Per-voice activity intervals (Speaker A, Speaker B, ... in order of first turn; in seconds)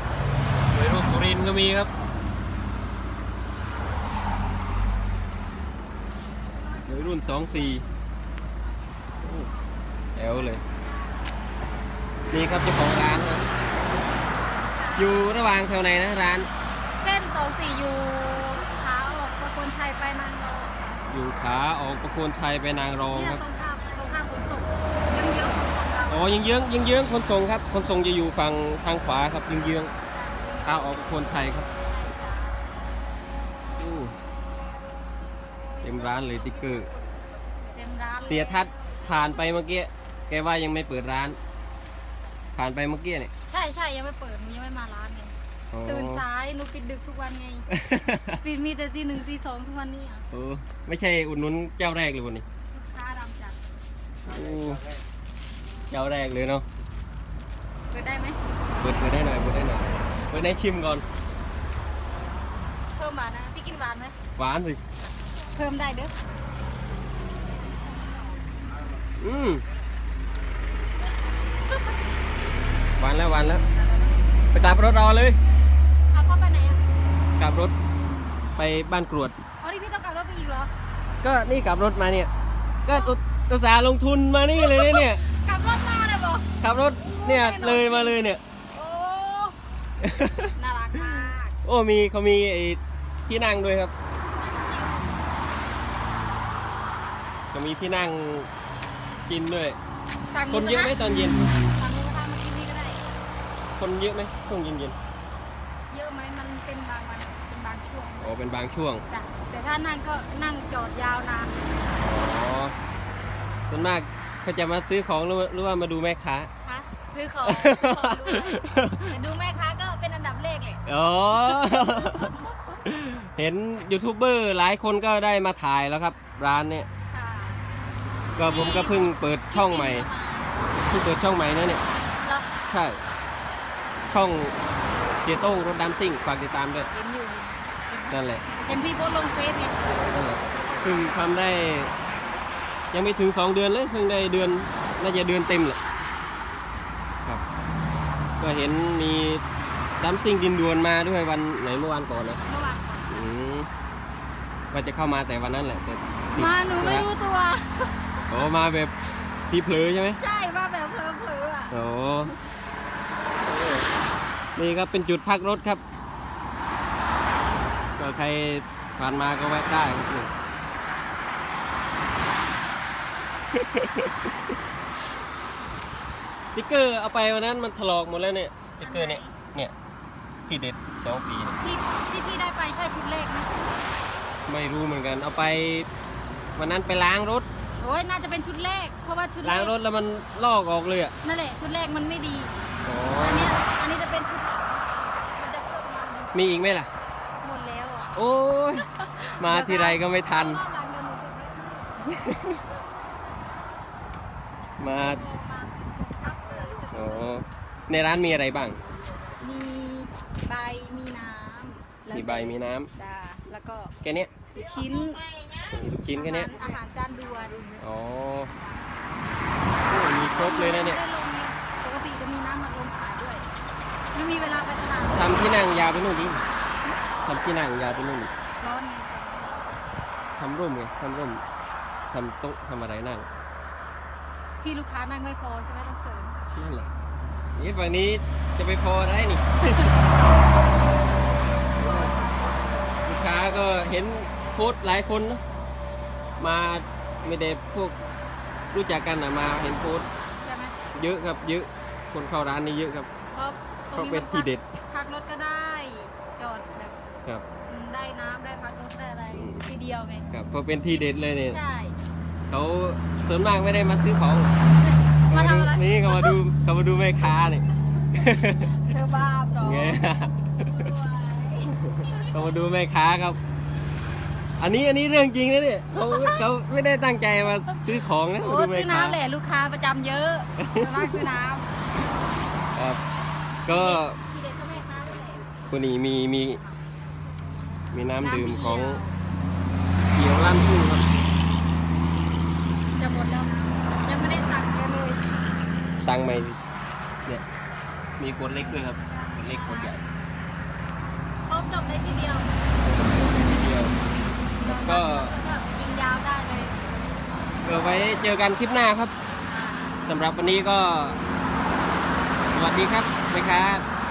Speaker A: 0.7-1.9, 6.8-7.8, 9.2-9.5, 10.1-10.6, 12.3-13.4, 14.9-16.5, 21.1-23.4, 26.1-29.9, 30.6-31.7, 33.8-34.1, 35.8-36.9, 38.2-41.4, 42.5-43.3, 45.7-46.2, 47.7-48.4, 50.3-52.4, 54.3-54.9, 55.9-56.6, 58.8-61.0, 64.3-64.8, 69.2-69.6, 73.0-73.6, 74.5-75.4, 77.4-77.7, 78.5-79.3, 81.2-82.3, 82.8-85.2, 86.6-88.4, 90.0-90.5, 91.6-93.9, 97.5-98.5, 99.3-99.8, 100.5-101.5, 103.8-105.0, 108.2-109.0, 112.0-112.7, 113.7-116.5, 117.5-119.1, 120.8-126.9, 128.4-130.1, 130.8-131.8, 132.7-133.0, 134.1-134.5, 135.2-136.9, 138.1-138.5, 140.1-141.9, 142.9-145.8, 148.4-149.4, 150.0-152.4, 153.1-153.7, 154.7-157.1, 158.3-158.9, 159.5-160.2, 161.7-162.3, 163.4-163.8, 164.6-165.8, 168.0-170.3, 173.5-174.1, 176.5-179.7, 180.5-181.6, 184.5-185.9, 186.6-187.5, 189.4-191.1, 192.8-193.5, 196.3-196.9, 198.1-200.6, 202.1-202.5, 204.8-205.2, 206.9-208.8, 212.1-212.9, 214.0-214.3, 215.7-216.5, 217.8-218.5, 219.8-221.0, 225.1-226.4, 227.2-228.3, 230.4-231.4, 232.1-233.3, 236.6-236.9, 237.6-239.9, 241.8-242.1, 243.0-245.4, 246.4-247.9, 248.7-250.1, 250.9-253.1, 253.9-254.6, 259.3-259.6, 260.3-261.6, 262.5-264.5, 265.3-268.8, 269.6-270.9, 271.9-273.4, 274.6-279.2, 280.6-281.2, 282.8-283.0, 283.6-284.2, 285.7-286.6, 287.9-289.0, 290.1-291.1, 296.0-296.6, 298.2-300.0, 302.8-303.9, 304.6-305.3, 307.6-309.1, 310.0-311.2, 312.4-313.8
Speaker B: 10.4-11.1, 14.7-15.1, 16.9-21.0, 23.1-26.5, 30.0-30.9, 31.9-32.7, 36.0-36.4, 37.7-39.1, 43.5-45.3, 45.8-47.6, 48.4-50.2, 52.7-53.6, 57.9-58.4, 63.0-64.1, 65.5-66.1, 73.8-74.1, 76.1-76.8, 79.6-80.7, 84.5-86.5, 87.0-88.2, 88.7-89.6, 90.5-91.5, 94.3-95.2, 100.3-101.0, 101.7-103.0, 105.9-108.3, 109.1-111.5, 116.6-120.8, 121.4-122.5, 127.1-127.6, 128.5-130.6, 132.2-132.5, 136.9-139.8, 140.5-141.1, 152.4-153.1, 156.3-158.0, 160.2-161.7, 178.8-179.3, 181.6-183.6, 187.8-189.7, 191.2-192.5, 193.2-196.3, 197.4-198.2, 198.9-202.6, 204.9-207.4, 209.4-213.9, 214.5-215.3, 216.1-217.8, 220.3-223.5, 224.1-225.3, 228.6-229.7, 234.6-236.3, 241.7-242.7, 250.4-250.8, 253.3-257.0, 257.6-260.3, 260.9-262.0, 265.2-266.4, 268.8-270.0, 270.7-272.4, 275.9-276.4, 277.9-281.7, 283.7-285.5, 288.2-289.2, 293.0-295.2, 298.6-300.0, 301.4-302.5, 304.6-306.8, 309.5-310.0